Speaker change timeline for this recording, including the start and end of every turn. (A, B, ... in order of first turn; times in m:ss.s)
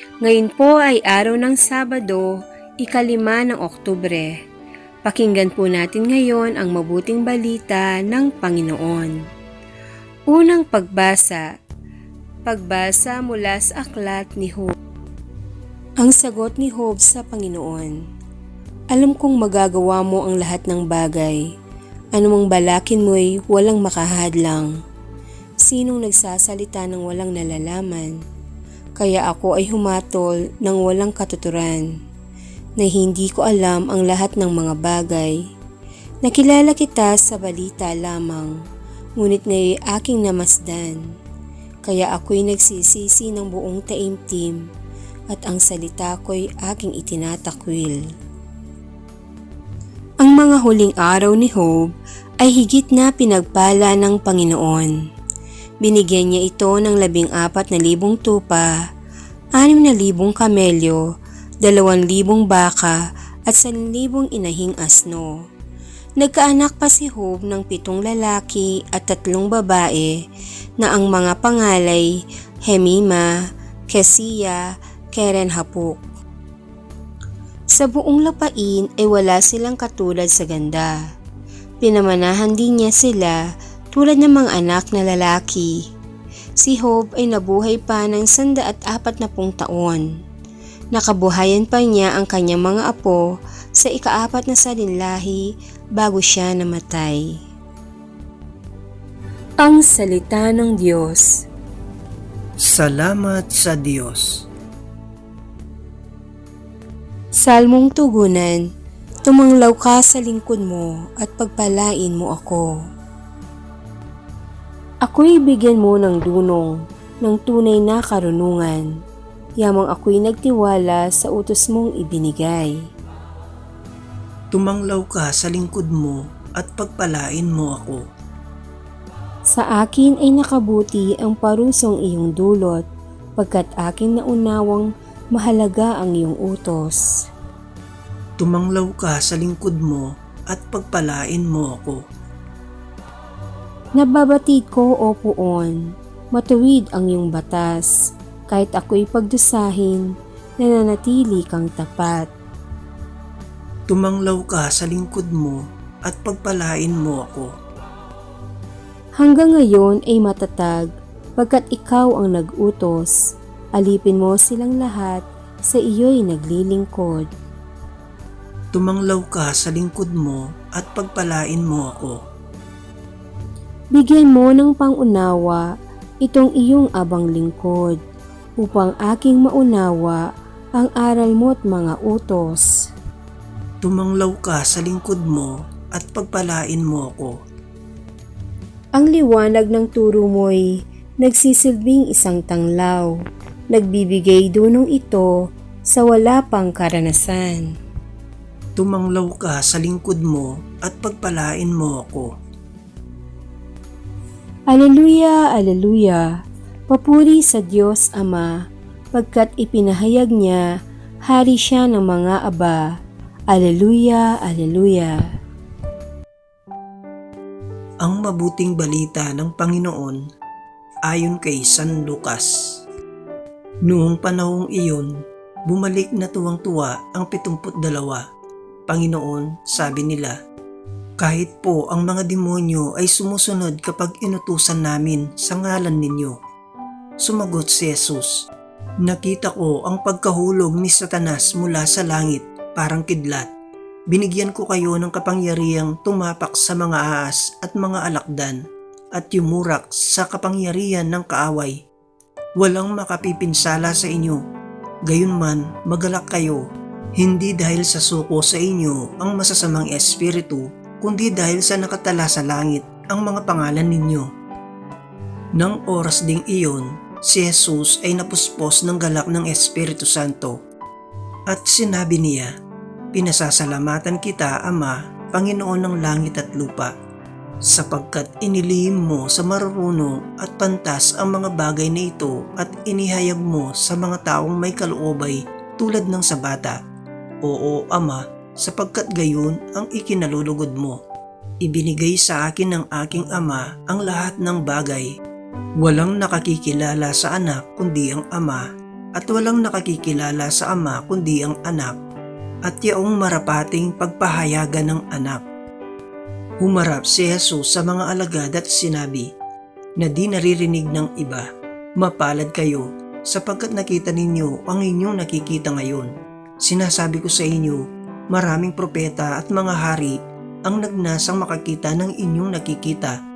0:00.2-0:04.4 A
0:05.0-0:09.3 A
0:10.3-0:11.5 A
0:12.5-0:14.8 A
0:16.0-0:18.0 A
0:18.9-0:21.4 A
0:22.1-0:24.7 A
0:25.6-0:28.2 A
0:29.0-0:31.9 A
0:32.8-0:35.4 A
0:36.2-0:38.6 A
0:39.2-0:41.1 A
0:41.8-0:44.7 A
0:45.3-0:48.0 A
0:50.2-0:55.0 A
0:55.8-0:58.7 A
0:59.6-1:01.0 A
1:01.6-1:05.4 A
1:06.2-1:10.2 A
1:10.8-1:13.3 A
1:13.9-1:16.0 A
1:17.7-1:21.1 A
1:21.8-1:25.8 A
1:26.6-1:30.1 A
1:30.9-1:33.2 A
1:33.8-1:37.4 A
1:39.6-1:41.4 A
1:42.6-1:44.4 B
1:47.3-1:48.7 A
1:49.2-1:52.8 A
1:55.0-1:58.9 A
1:59.6-2:02.8 A
2:04.5-2:08.0 B
2:09.5-2:12.8 A
2:13.4-2:17.1 A
2:18.4-2:22.0 B
2:24.0-2:27.9 A
2:28.5-2:30.1 A
2:30.6-2:32.3 A
2:33.9-2:37.5 B
2:39.2-2:43.2 A
2:43.7-2:47.3 A
2:48.7-2:52.2 B
2:53.9-2:55.7 A
2:56.2-2:58.0 A
2:58.6-3:02.9 A
3:03.8-3:07.4 B
3:08.9-3:13.2 A
3:13.7-3:15.4 A
3:15.9-3:17.7 A
3:18.8-3:22.3 B
3:24.7-3:28.5 A
3:29.1-3:30.6 A
3:31.3-3:33.0 A
3:33.5-3:35.3 A
3:38.0-3:40.2 B
3:41.1-3:42.6 B
3:43.9-3:45.1 B
3:45.7-3:48.2 B
3:48.9-3:50.4 B
3:51.2-3:56.4 B
3:57.2-3:58.5 B
3:59.0-4:03.5 B
4:04.1-4:08.6 B
4:09.2-4:11.8 B
4:12.6-4:14.4 B
4:15.1-4:16.6 B
4:17.2-4:24.3 B
4:25.6-4:30.6 B
4:31.5-4:32.5 B
4:33.1-4:36.9 B
4:37.7-4:46.8 B
4:47.4-4:51.0 B
4:51.6-4:55.1 B
4:55.8-4:58.6 B
4:59.2-5:02.0 B
5:02.7-5:05.4 B
5:06.6-5:09.3 B
5:10.0-5:11.4 B
5:12.0-5:16.1 B
5:16.6-5:23.2 B